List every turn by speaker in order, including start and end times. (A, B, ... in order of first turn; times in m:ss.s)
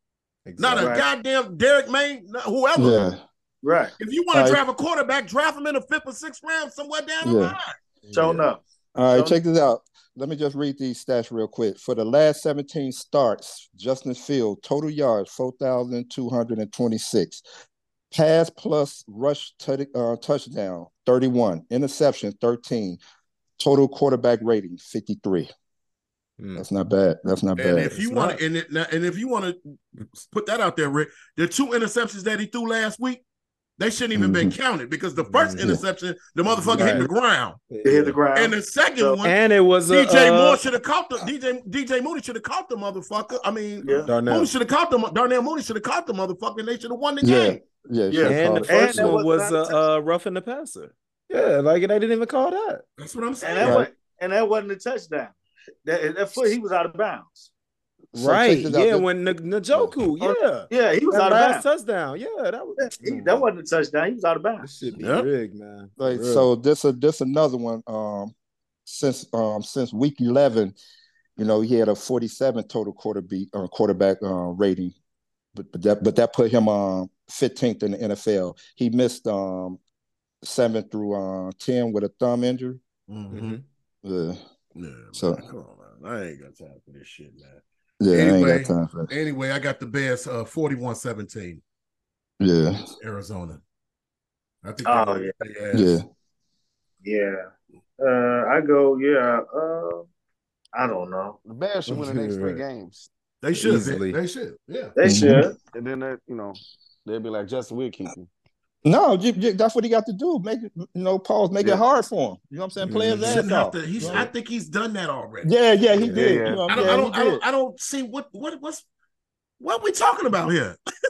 0:00.4-0:01.0 A
0:00.6-0:03.1 B
0:00.8-0:01.0 C
0:02.8-0:03.2 D
0:03.6-0:03.9 C
0:04.0-0:07.7 B
0:04.3-0:04.6 D
0:07.2-0:07.6 D
0:08.1-0:08.4 A
0:08.1-0:08.6 C
0:09.0-0:17.4 D
0:09.1-0:09.4 C
0:18.1-0:23.0 D
0:23.6-0:25.5 D
0:26.4-0:26.6 A
0:26.6-0:27.9 D
0:27.6-0:33.2 B
0:27.9-0:28.4 A
0:33.8-0:37.6 B
0:34.1-0:34.5 D
0:35.2-0:35.8 A
0:36.5-0:37.1 A
0:37.7-0:38.2 A
0:37.8-0:39.2 C
0:38.3-0:39.4 B
0:39.2-0:40.6 A
0:39.9-0:47.6 B
0:43.8-0:44.1 C
0:44.0-0:44.5 A
0:47.2-0:49.2 D
0:48.1-0:49.8 C
0:48.2-0:52.8 A
0:53.0-0:53.8 B
0:53.4-0:57.5 C
0:53.6-0:53.9 D
0:58.1-0:59.0 D
0:58.1-1:03.4 A
1:00.2-1:01.6 C
1:02.8-1:04.7 C
1:04.6-1:06.5 A
1:05.0-1:05.3 B
1:06.0-1:08.3 D
1:08.8-1:10.8 D
1:11.4-1:14.9 D
1:15.5-1:19.8 D
1:20.4-1:22.8 D
1:23.1-1:23.6 B
1:23.3-1:23.6 A
1:24.0-1:24.4 D
1:24.8-1:31.6 B
1:25.1-1:25.4 D
1:28.0-1:29.1 D
1:32.4-1:32.9 D
1:32.9-1:33.6 B
1:34.6-1:36.0 B
1:34.8-1:35.3 C
1:35.7-1:36.0 D
1:37.0-1:37.5 C
1:38.0-1:40.0 C
1:40.7-1:41.4 C
1:41.4-1:43.1 E
1:41.9-1:42.6 A
1:43.4-1:44.9 B
1:43.6-1:44.2 A
1:45.0-1:45.6 C
1:45.0-1:45.5 D
1:45.7-1:48.3 E
1:48.8-1:54.3 D
1:52.8-1:53.5 A
1:53.2-1:55.5 B
1:54.0-1:54.2 A
1:55.4-1:57.4 D
1:55.9-1:56.5 A
1:56.1-1:56.6 E
1:56.7-1:58.8 B
1:59.6-2:00.8 B